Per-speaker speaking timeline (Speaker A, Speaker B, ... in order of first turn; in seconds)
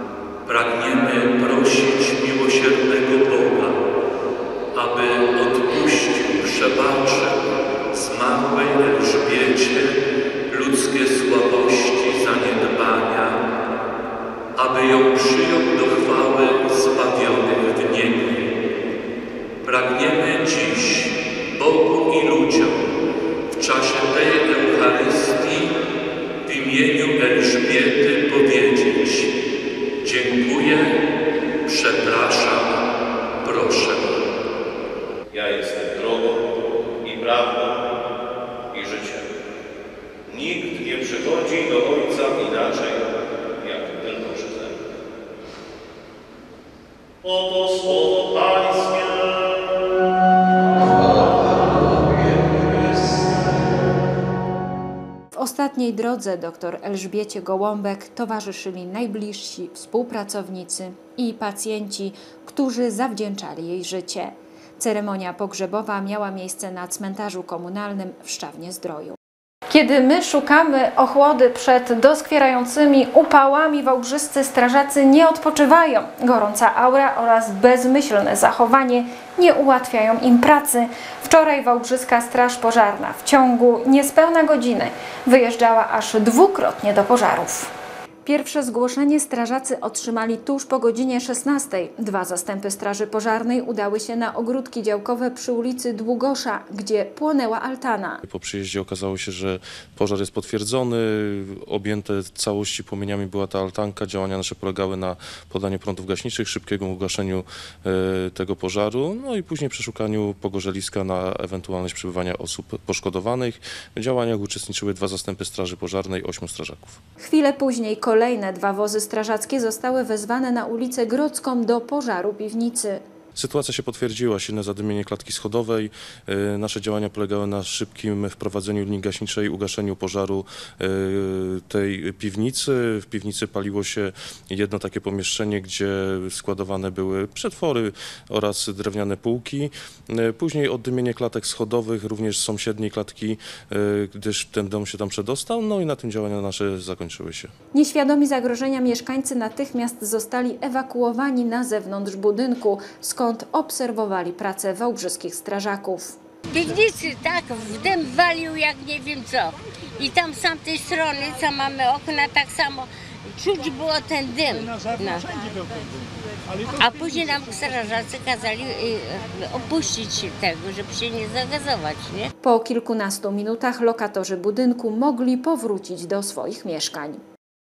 Speaker A: 0.4-3.8, 4.7-7.4, 7.9-13.4, 14.6-18.4, 19.6-22.8, 23.5-25.7, 26.4-29.3, 30.0-30.9, 31.6-32.8, 33.4-34.2
Speaker B: 35.3-36.4, 37.0-37.7, 38.7-39.2, 40.3-43.0, 43.6-44.7, 47.9-48.8
Speaker C: 55.3-69.2, 69.7-87.7, 88.2-98.2, 117.2-123.0, 147.7-156.2, 172.4-177.2
Speaker D: 98.2-117.0, 123.3-147.5
Speaker E: 156.5-165.6, 166.8-172.3